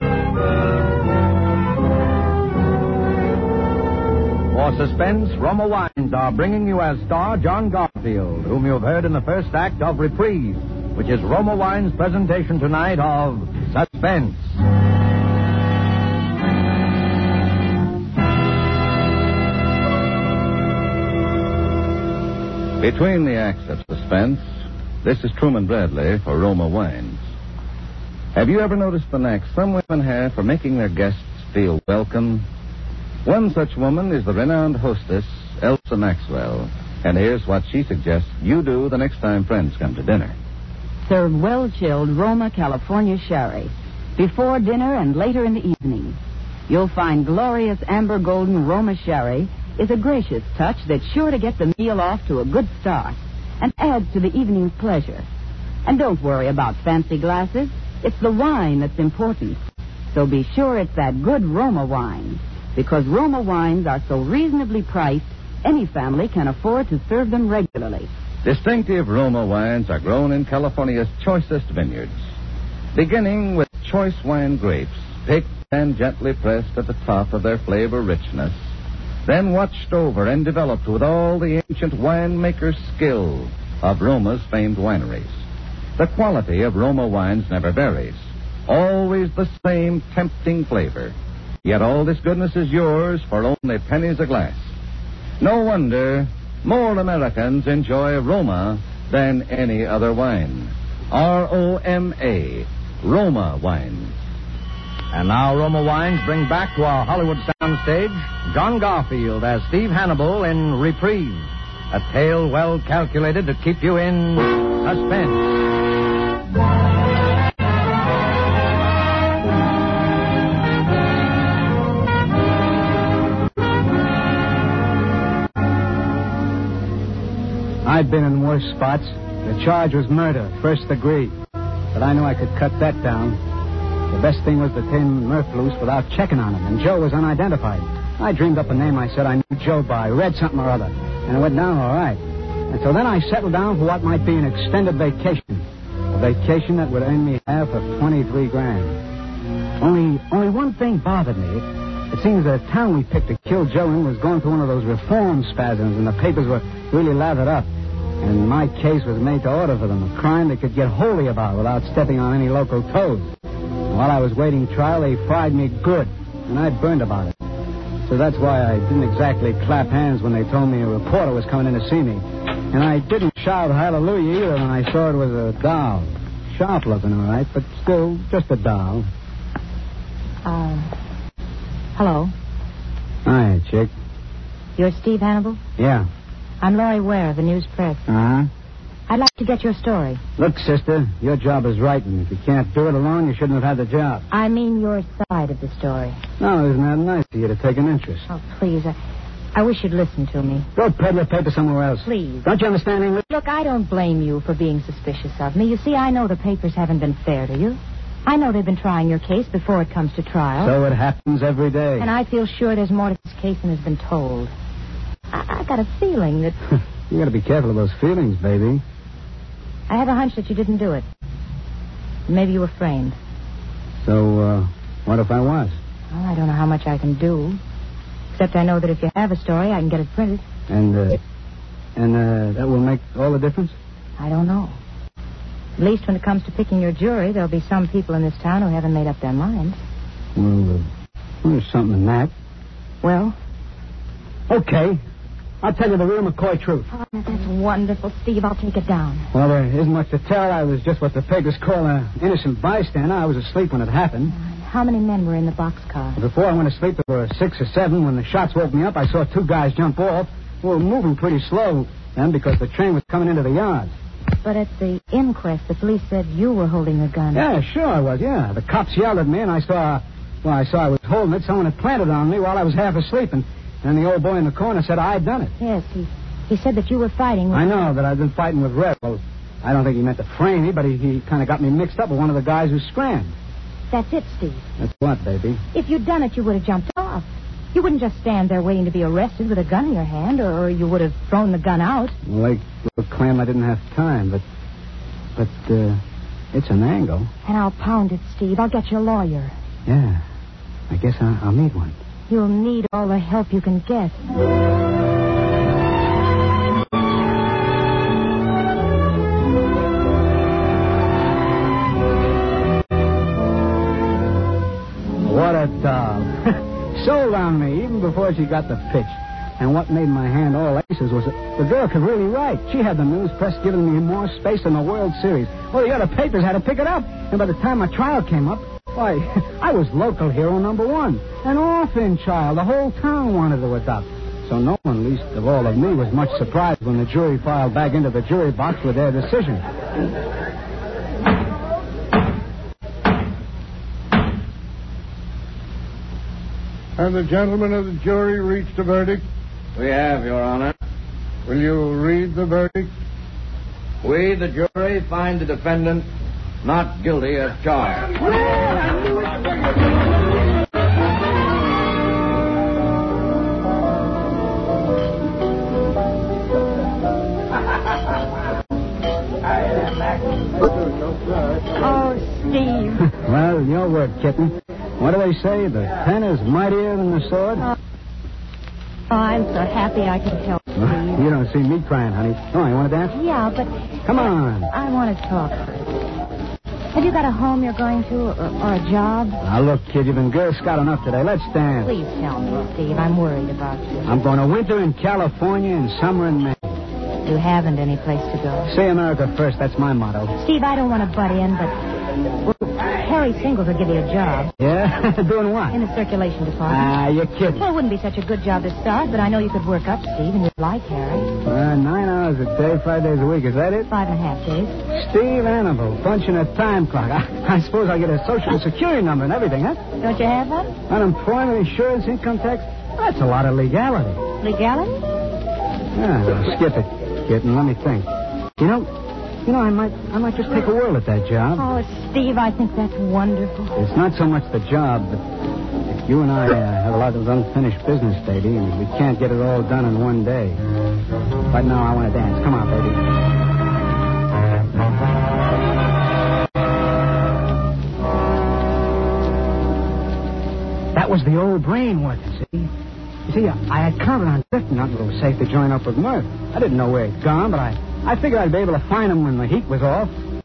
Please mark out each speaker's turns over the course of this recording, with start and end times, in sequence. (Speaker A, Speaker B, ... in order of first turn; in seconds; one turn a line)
Speaker A: 4.5-14.6
Speaker B: 22.8-24.5
Speaker B: 25.0-27.2
Speaker B: 28.4-32.5
Speaker B: 33.2-40.4
Speaker C: 41.0-55.3
Speaker C: 55.9-59.6
Speaker C: 60.1-68.1
Speaker B: 68.4-72.1
Speaker B: 72.9-78.6
Speaker B: 79.3-85.3
Speaker B: 86.0-94.6
Speaker B: 95.4-104.1
Speaker A: 105.1-115.4
Speaker D: 127.8-131.4
Speaker D: 131.9-133.4
Speaker D: 134.1-149.0
Speaker D: 149.8-157.7
Speaker D: 158.2-163.3
Speaker D: 163.9-167.3
Speaker D: 168.1-179.1
Speaker E: 180.4-180.9
Speaker E: 181.9-182.3
Speaker D: 183.2-183.9
Speaker E: 184.8-185.6
Speaker D: 185.8-186.1
Speaker E: 186.6-188.1
Speaker D: 188.1-188.5
Speaker E: 189.1-190.2
Speaker D: 190.4-194.2
Speaker E: 194.3-196.2
Speaker D: 196.4-198.3
Speaker E: 198.3-198.9
Speaker E: 199.5-200.7
Speaker D: 200.8-203.2
Speaker E: 202.0-202.5
Speaker E: 203.3-210.7
Speaker D: 210.6-212.1
Speaker E: 212.0-214.5
Speaker E: 215.3-216.6
Speaker D: 217.1-218.8
Speaker E: 219.9-221.1
Speaker E: 222.3-223.2
Speaker D: 224.0-225.8
Speaker E: 226.1-227.6
Speaker E: 228.3-230.4
Speaker D: 230.7-231.2
Speaker D: 232.0-233.8
Speaker E: 234.2-234.8
Speaker E: 235.8-239.8
Speaker D: 240.4-240.9
Speaker D: 241.4-242.3
Speaker E: 243.0-243.4
Speaker D: 244.5-245.0
Speaker D: 245.6-246.9
Speaker E: 246.9-249.3
Speaker D: 249.3-254.3
Speaker E: 254.3-256.2
Speaker D: 256.2-263.9
Speaker E: 264.4-267.5
Speaker D: 267.3-275.5
Speaker E: 275.6-277.7
Speaker D: 277.5-283.4
Speaker E: 283.9-284.6
Speaker D: 284.8-285.6
Speaker E: 285.7-292.2
Speaker D: 292.2-294.4
Speaker D: 295.4-296.0
Speaker D: 296.5-297.3
Speaker E: 297.4-299.6
Speaker D: 299.9-300.2
Speaker D: 300.9-302.0
Speaker E: 302.3-304.2
Speaker D: 315.2-339.6
Speaker F: 347.0-349.2
Speaker A: 349.8-350.8
Speaker F: 351.5-352.9
Speaker A: 354.0-356.1
Speaker A: 356.6-358.1
Speaker E: 371.8-373.0
Speaker D: 373.0-377.7
Speaker E: 379.1-381.2
Speaker D: 380.8-383.2
Speaker E: 383.1-383.8
Speaker D: 384.1-384.7
Speaker E: 384.7-385.8
Speaker E: 386.9-389.4
Speaker D: 389.4-391.9
Speaker E: 391.8-394.0
Speaker D: 394.1-396.8
Speaker E: 397.2-398.7
Speaker D: 398.6-400.4
Speaker E: 400.4-401.9
Speaker E: 402.4-404.5
Speaker D: 404.6-405.8
Speaker E: 405.7-406.9
Speaker D: 406.7-407.6
Speaker E: 407.5-411.3
Speaker D: 411.4-413.9
Speaker E: 413.9-414.8
Speaker D: 414.9-419.8
Speaker E: 420.0-420.7
Speaker D: 420.9-424.2
Speaker E: 424.4-425.0
Speaker D: 425.9-428.9
Speaker D: 429.4-431.7
Speaker E: 431.6-433.8
Speaker D: 433.8-435.2
Speaker D: 435.9-440.6
Speaker D: 441.5-443.0
Speaker D: 450.9-452.7
Speaker D: 453.3-460.1